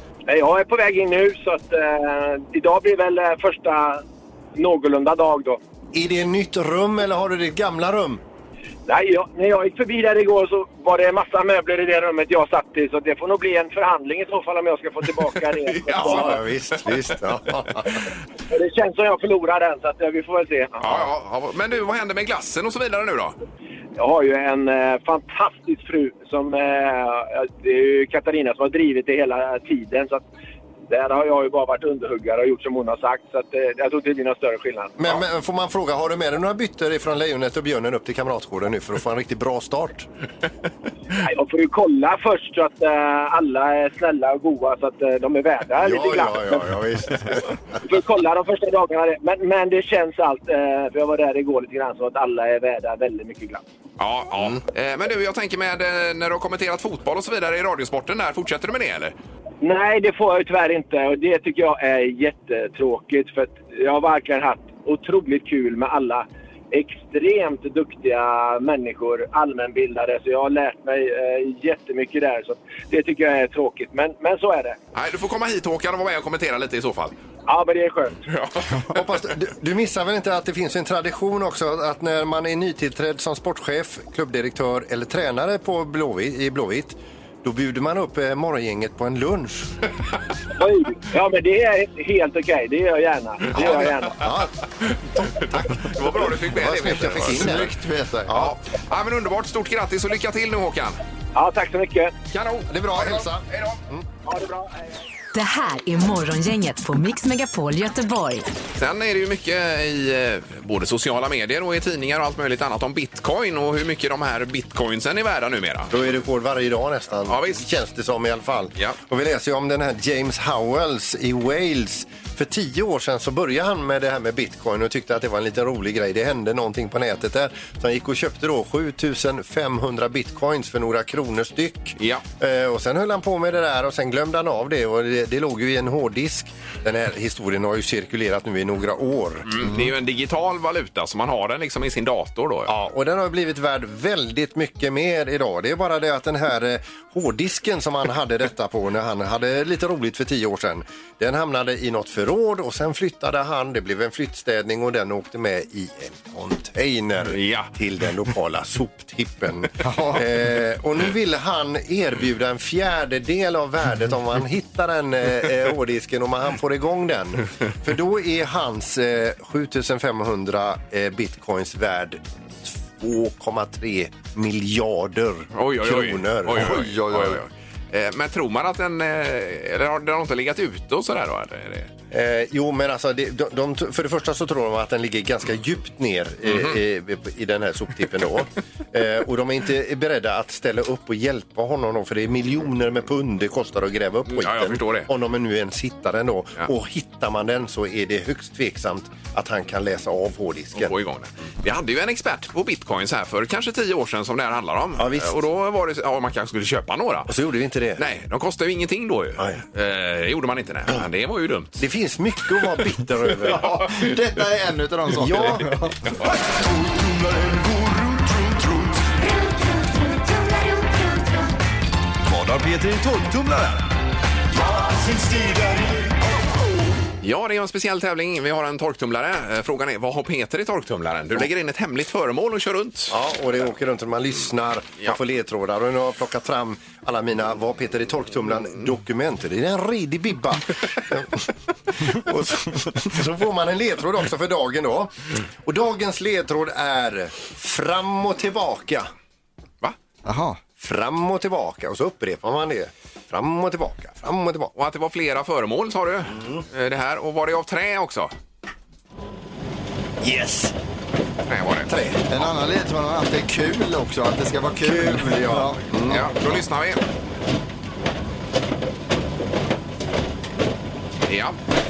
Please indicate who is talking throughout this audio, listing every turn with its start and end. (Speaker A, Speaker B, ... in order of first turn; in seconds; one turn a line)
Speaker A: 0.3-4.0
Speaker A: 4.5-5.6
Speaker B: 5.9-8.2
Speaker A: 8.9-16.4
Speaker C: 15.7-17.0
Speaker B: 15.9-18.0
Speaker A: 18.5-20.9
Speaker C: 20.8-23.4
Speaker A: 24.0-30.3
Speaker A: 30.9-35.2
Speaker B: 35.0-40.1
Speaker A: 41.2-46.6
Speaker B: 45.8-47.4
Speaker A: 47.8-53.6
Speaker C: 54.0-59.1
Speaker A: 59.6-74.8
Speaker C: 74.9-77.1
Speaker A: 77.5-78.2
Speaker C: 78.3-78.8
Speaker B: 78.9-89.7
Speaker A: 90.6-94.2
Speaker B: 93.5-97.7
Speaker C: 95.4-97.6
Speaker D: 97.4-98.3
Speaker B: 98.3-98.5
Speaker C: 98.3-101.0
Speaker A: 101.3-102.1
Speaker C: 102.3-103.8
Speaker B: 102.7-104.0
Speaker A: 104.2-104.7
Speaker E: 105.3-108.5
Speaker C: 108.8-115.9
Speaker B: 115.9-139.6
Speaker C: 117.3-117.6
Speaker C: 139.5-142.7
Speaker B: 142.7-176.8
Speaker C: 157.2-157.7
Speaker D: 159.8-160.3
Speaker C: 175.6-181.9
Speaker D: 176.5-177.4
Speaker B: 182.1-200.9
Speaker C: 186.4-186.8
Speaker C: 194.3-195.1
Speaker C: 200.8-207.3
Speaker B: 205.0-205.3
Speaker B: 207.3-208.0
Speaker C: 208.0-211.8
Speaker B: 211.8-213.7
Speaker D: 213.5-215.9
Speaker B: 215.2-215.8
Speaker F: 216.7-218.9
Speaker F: 222.3-223.8
Speaker F: 224.6-226.1
Speaker C: 227.2-233.1
Speaker B: 233.1-241.4
Speaker B: 242.2-249.1
Speaker D: 250.2-250.6
Speaker B: 250.8-254.7
Speaker C: 254.8-258.3
Speaker B: 260.2-260.7
Speaker C: 261.5-261.9
Speaker B: 261.9-262.2
Speaker D: 262.3-266.2
Speaker B: 264.8-266.2
Speaker C: 266.1-267.0
Speaker C: 271.2-271.6